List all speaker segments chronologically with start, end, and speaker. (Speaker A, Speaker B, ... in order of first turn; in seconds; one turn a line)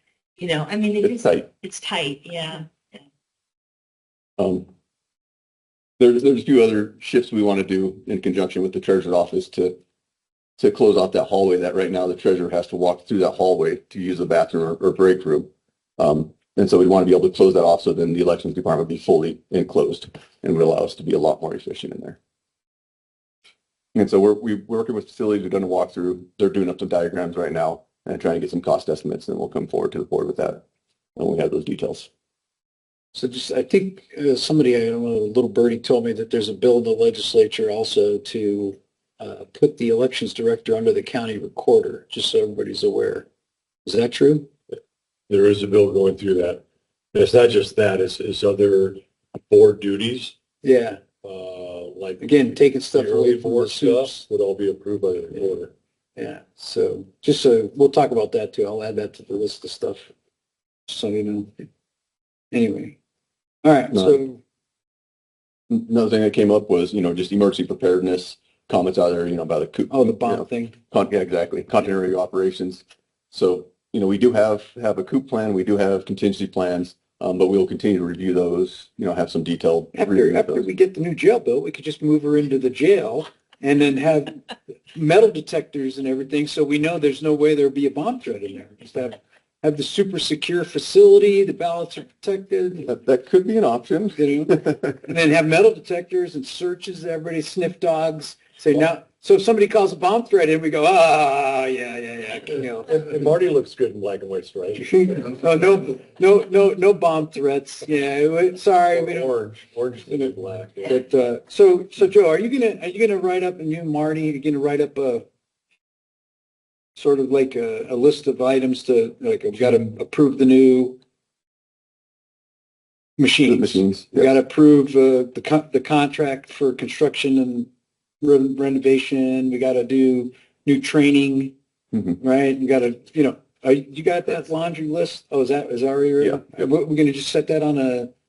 Speaker A: 0.4-3.0
Speaker B: 1.0-1.5
Speaker B: 4.4-4.7
Speaker B: 6.0-9.8
Speaker B: 10.6-22.2
Speaker B: 23.9-30.6
Speaker B: 31.1-32.1
Speaker C: 33.1-43.3
Speaker C: 43.8-44.5
Speaker D: 45.3-50.4
Speaker C: 50.6-51.0
Speaker D: 51.2-55.7
Speaker C: 52.2-54.2
Speaker C: 56.1-60.1
Speaker C: 60.9-61.5
Speaker C: 62.5-63.0
Speaker C: 63.6-64.4
Speaker B: 63.9-64.2
Speaker B: 65.7-80.7
Speaker C: 69.9-70.8
Speaker C: 79.9-84.4
Speaker C: 84.9-92.9
Speaker B: 92.8-94.9
Speaker C: 94.1-103.0
Speaker D: 102.9-104.9
Speaker C: 104.8-109.3
Speaker D: 108.9-110.9
Speaker C: 110.8-115.2
Speaker C: 117.0-121.0
Speaker C: 123.2-127.7
Speaker B: 123.5-124.4
Speaker C: 128.2-131.5
Speaker C: 132.2-138.1
Speaker B: 136.2-136.5